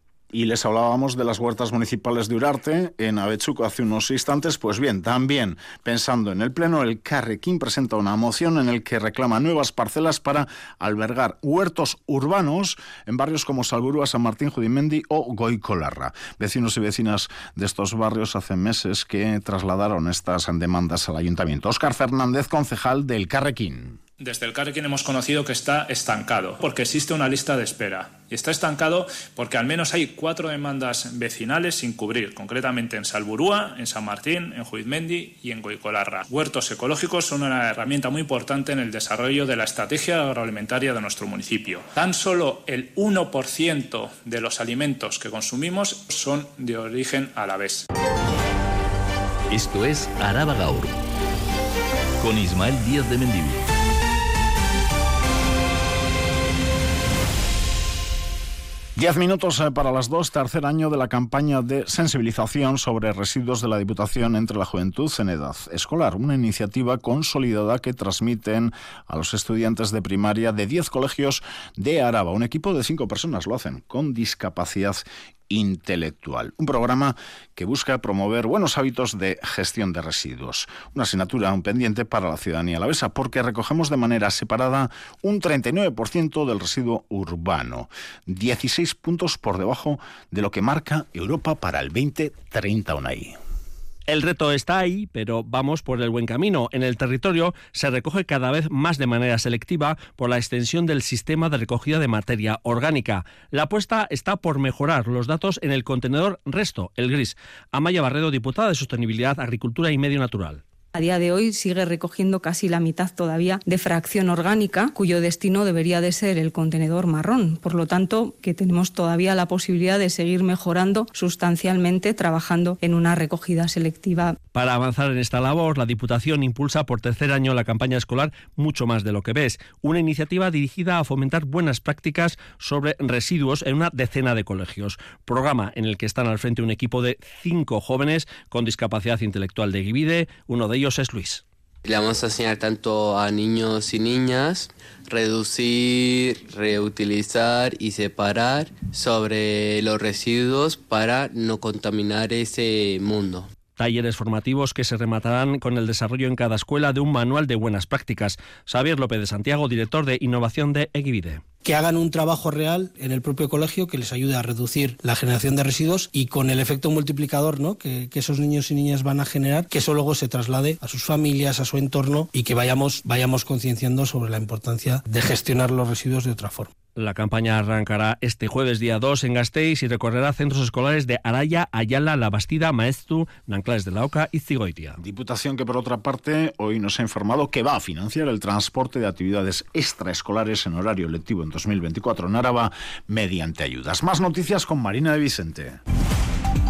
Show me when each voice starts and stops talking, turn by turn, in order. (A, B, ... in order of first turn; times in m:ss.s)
0:00.3-0:24.0 A
0:24.2-0:47.8 B
0:49.5-0:51.0 C
0:52.2-0:53.7 C
0:59.0-1:33.4 A
1:34.1-1:50.6 D
1:50.9-2:04.4 E
2:04.5-2:21.4 D
2:21.8-2:33.5 F
2:33.8-2:41.4 D
2:41.6-2:56.7 G
2:57.0-3:05.0 D
3:05.0-3:15.8 A